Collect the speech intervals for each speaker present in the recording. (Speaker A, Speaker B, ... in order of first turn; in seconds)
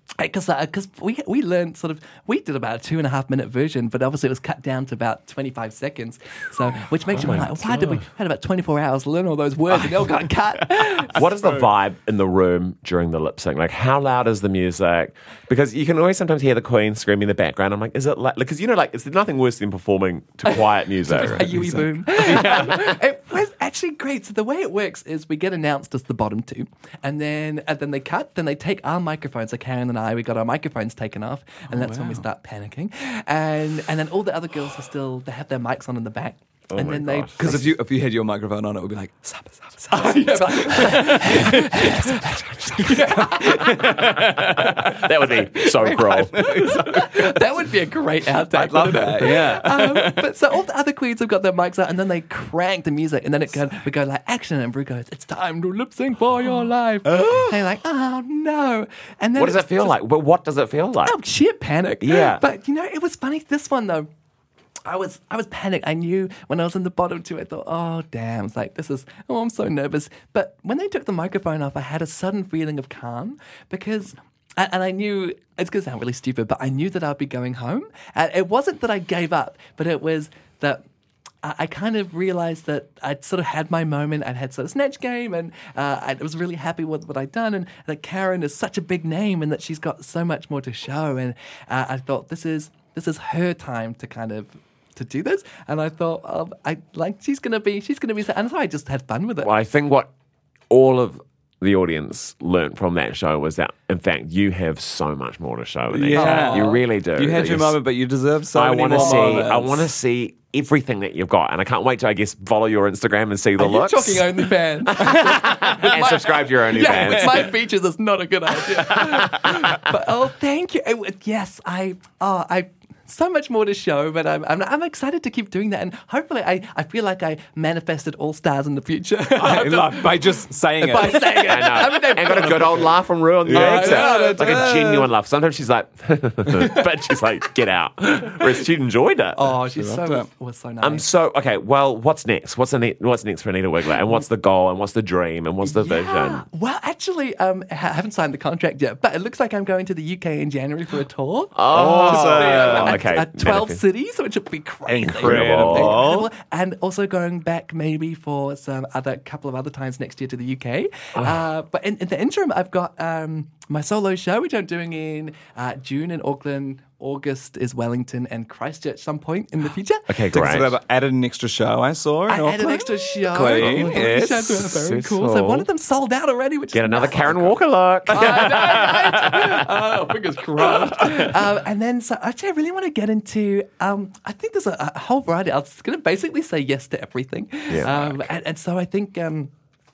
Speaker A: 0.2-11.2, 20.5-37.7, 39.9-44.2, 45.7-59.9, 61.0-64.1, 64.8-80.8, 81.4-99.5, 106.1-106.8, 108.9-109.4, 113.6-134.8, 136.6-136.9, 139.3-141.1, 145.6-170.1, 172.3-177.6, 178.1-189.5
Speaker B: 7.1-8.0, 11.1-21.6, 36.7-37.6, 43.8-46.5, 59.4-61.1, 62.0-62.4, 99.4-100.1, 100.7-107.8, 108.5-117.5, 118.8-119.5, 131.4-139.5, 140.8-146.4, 151.5-153.8, 155.0-156.1, 161.2-161.4, 170.1-170.8, 173.5-174.0, 174.6-175.7, 176.7-179.4, 187.7-188.3
Speaker C: 10.6-11.7, 21.1-23.0, 31.7-32.2, 37.4-47.4, 48.5-50.2, 57.1-57.5, 105.9-109.9, 129.3-131.8, 133.4-135.1, 139.7-140.3, 151.7-153.0, 154.9-156.3, 170.3-174.7, 178.1-179.6, 180.7-181.3